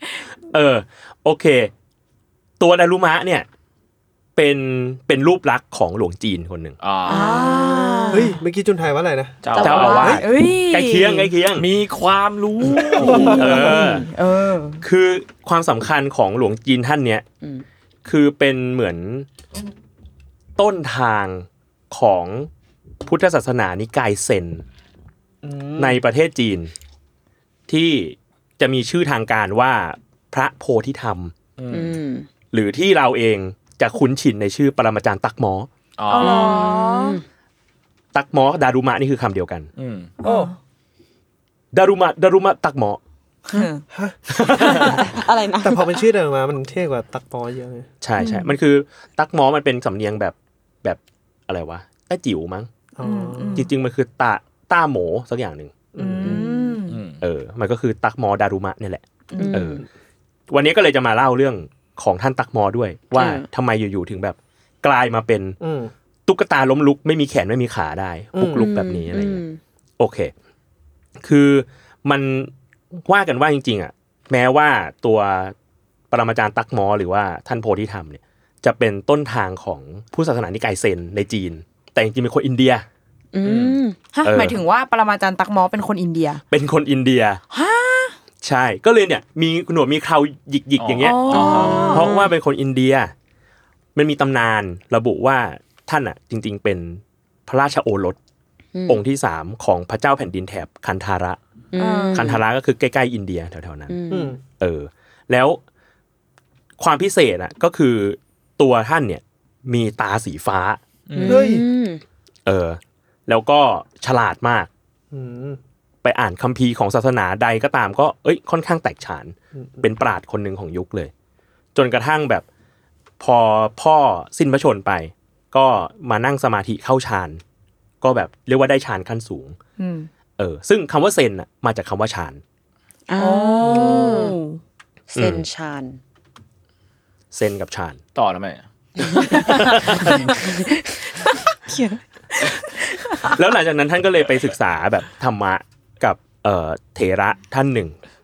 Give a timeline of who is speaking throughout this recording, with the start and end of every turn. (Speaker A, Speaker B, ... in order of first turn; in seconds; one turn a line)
Speaker A: 0.5-1.7
Speaker A: 2.6-3.5
Speaker A: 4.3-6.8
Speaker B: 6.8-7.6
Speaker C: 7.0-8.3
Speaker D: 7.0-8.4
Speaker E: 8.1-10.2
Speaker B: 9.4-10.2
Speaker D: 9.6-11.3
Speaker A: 9.6-11.7
Speaker C: 9.6-10.2
Speaker B: 11.6-13.4
Speaker E: 12.7-14.0
Speaker C: 13.0-13.8
Speaker D: 13.1-14.8
Speaker A: 13.3-14.1
Speaker A: 14.8-17.2
Speaker A: 18.0-19.3
Speaker A: 20.6-22.5
Speaker A: 23.0-24.6
Speaker E: 25.4-26.0
Speaker A: 25.8-26.7
Speaker A: 27.7-31.3
Speaker B: 31.6-31.9
Speaker C: 31.7-32.3
Speaker A: 32.5-35.7
Speaker B: 36.0-36.8
Speaker D: 36.1-37.2
Speaker C: 36.2-37.2
Speaker A: 38.1-39.7
Speaker B: 39.8-40.1
Speaker D: 40.2-40.5
Speaker E: 40.2-40.5
Speaker A: 41.7-43.0
Speaker D: 43.5-43.8
Speaker E: 43.9-44.2
Speaker A: 44.3-45.0
Speaker C: 44.7-46.0
Speaker E: 44.8-47.9
Speaker A: 48.0-52.7
Speaker D: 48.2-48.5
Speaker E: 53.0-53.7
Speaker D: 53.0-53.7
Speaker A: 53.5-55.7
Speaker E: 55.9-56.5
Speaker D: 56.0-57.0
Speaker C: 56.2-56.8
Speaker B: 56.9-57.2
Speaker A: 57.2-59.8
Speaker D: 59.3-59.6
Speaker C: 59.4-59.8
Speaker A: 60.5-65.6
Speaker C: 63.1-63.5
Speaker E: 65.6-65.9
Speaker A: 66.2-69.4
Speaker E: 68.3-68.7
Speaker C: 68.5-69.6
Speaker A: 70.0-70.3
Speaker A: 71.2-75.5
Speaker A: 76.1-82.8
Speaker C: 83.3-84.0
Speaker B: 83.4-83.8
Speaker D: 84.1-86.4
Speaker A: 84.2-84.6
Speaker A: 86.5-87.4
Speaker D: 87.5-88.2
Speaker A: 88.4-93.1
Speaker B: 90.8-92.1
Speaker D: 91.0-92.3
Speaker C: 91.5-92.1
Speaker A: 93.9-98.2
Speaker C: 98.7-99.0
Speaker A: 98.9-101.4
Speaker C: 101.7-102.4
Speaker D: 101.8-102.2
Speaker A: 102.1-103.9
Speaker C: 103.9-104.3
Speaker E: 104.1-104.4
Speaker A: 104.6-105.6
Speaker A: 106.8-110.8
Speaker B: 111.1-111.5
Speaker C: 111.2-112.0
Speaker E: 111.2-111.6
Speaker A: 112.5-114.7
Speaker E: 115.1-115.6
Speaker A: 116.0-121.1
Speaker E: 119.5-119.8
Speaker A: 121.7-122.5
Speaker A: 123.2-127.4
Speaker A: 128.0-129.6
Speaker D: 129.8-130.1
Speaker A: 130.4-132.4
Speaker C: 133.1-134.3
Speaker D: 133.2-134.6
Speaker C: 135.1-136.0
Speaker A: 135.1-135.4
Speaker A: 137.3-138.0
Speaker B: 138.1-140.2
Speaker D: 139.3-139.6
Speaker A: 139.5-140.2
Speaker D: 140.3-140.6
Speaker C: 140.4-140.9
Speaker D: 141.2-143.4
Speaker A: 143.2-147.9